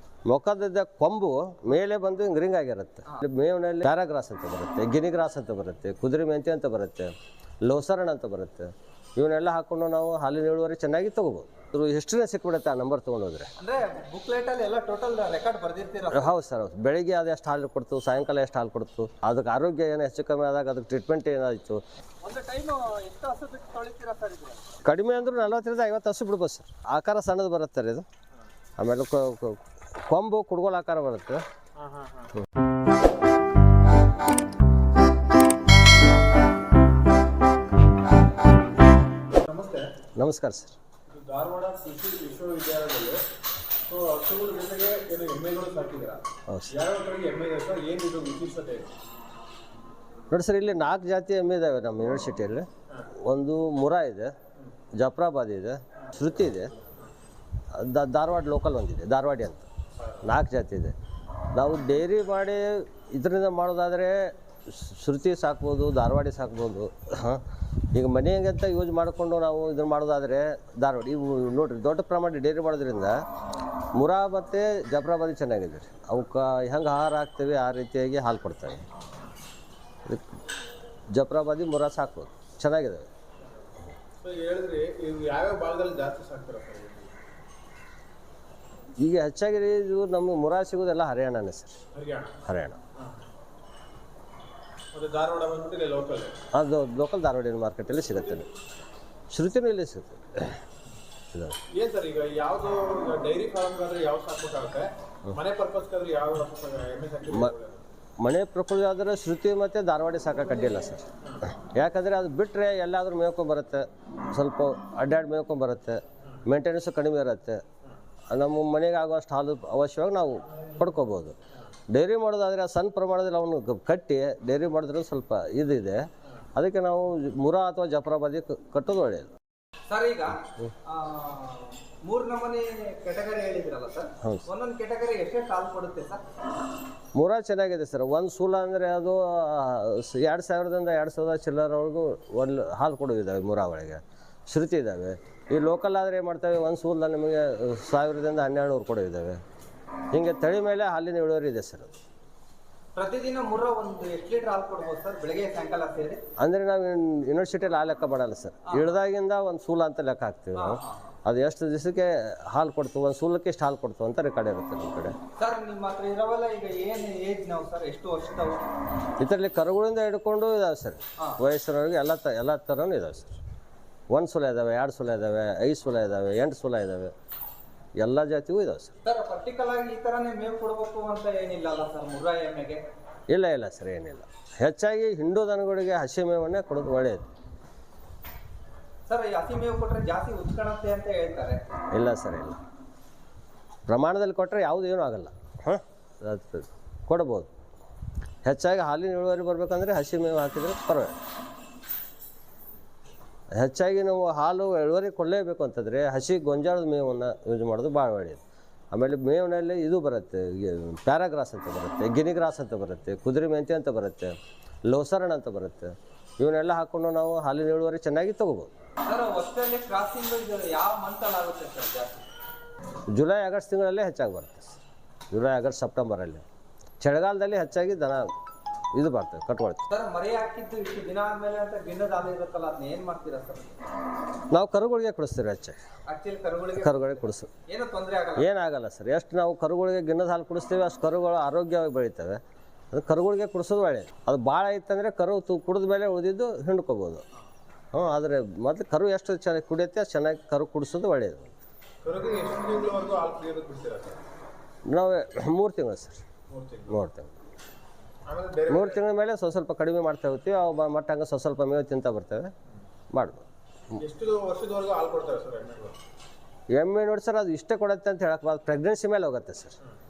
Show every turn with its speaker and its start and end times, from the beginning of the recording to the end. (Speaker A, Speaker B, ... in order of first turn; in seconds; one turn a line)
Speaker A: 0.2-13.5
Speaker B: 13.6-16.3
Speaker A: 16.1-21.8
Speaker B: 22.2-24.6
Speaker A: 24.8-28.1
Speaker A: 28.8-31.4
Speaker C: 31.8-32.3
Speaker C: 39.4-39.9
Speaker A: 40.1-40.8
Speaker C: 41.1-43.2
Speaker C: 43.8-48.9
Speaker A: 46.5-46.7
Speaker A: 50.3-54.3
Speaker A: 55.0-56.7
Speaker A: 57.7-59.7
Speaker C: 60.0-60.3
Speaker A: 60.2-60.9
Speaker A: 61.5-73.2
Speaker A: 73.9-78.9
Speaker A: 80.0-80.3
Speaker A: 81.1-83.1
Speaker C: 84.2-87.1
Speaker A: 89.0-91.8
Speaker C: 91.9-92.4
Speaker A: 92.4-92.8
Speaker C: 94.9-96.4
Speaker A: 96.5-98.5
Speaker A: 99.3-100.6
Speaker A: 101.3-101.6
Speaker C: 101.7-107.8
Speaker A: 108.2-117.6
Speaker C: 111.2-111.5
Speaker A: 118.3-121.3
Speaker A: 121.9-129.3
Speaker B: 129.9-136.2
Speaker A: 134.2-134.4
Speaker A: 137.1-149.4
Speaker A: 150.1-151.9
Speaker B: 152.9-156.2
Speaker A: 156.4-165.2
Speaker B: 158.7-159.0
Speaker B: 160.6-161.0
Speaker B: 165.4-168.6
Speaker A: 169.2-173.4
Speaker A: 174.1-177.1
Speaker A: 178.0-178.9
Speaker B: 179.0-182.8
Speaker A: 183.3-187.3
Speaker B: 189.1-191.6
Speaker A: 191.9-192.6
Speaker A: 193.9-197.5
Speaker A: 198.4-201.2
Speaker A: 203.5-208.4
Speaker A: 208.9-218.7
Speaker B: 219.0-222.2
Speaker A: 223.1-224.8
Speaker A: 225.3-226.4
Speaker A: 227.0-228.3
Speaker A: 228.9-229.8
Speaker B: 229.9-233.8
Speaker A: 234.5-235.8
Speaker B: 236.1-238.5
Speaker A: 236.7-237.5
Speaker A: 238.3-247.2
Speaker A: 247.9-251.5
Speaker C: 252.0-254.2
Speaker A: 254.9-256.2
Speaker C: 256.5-257.0
Speaker A: 256.9-257.3
Speaker C: 258.2-259.0
Speaker A: 258.7-262.5
Speaker A: 263.1-263.4
Speaker C: 264.0-265.9
Speaker A: 266.7-269.8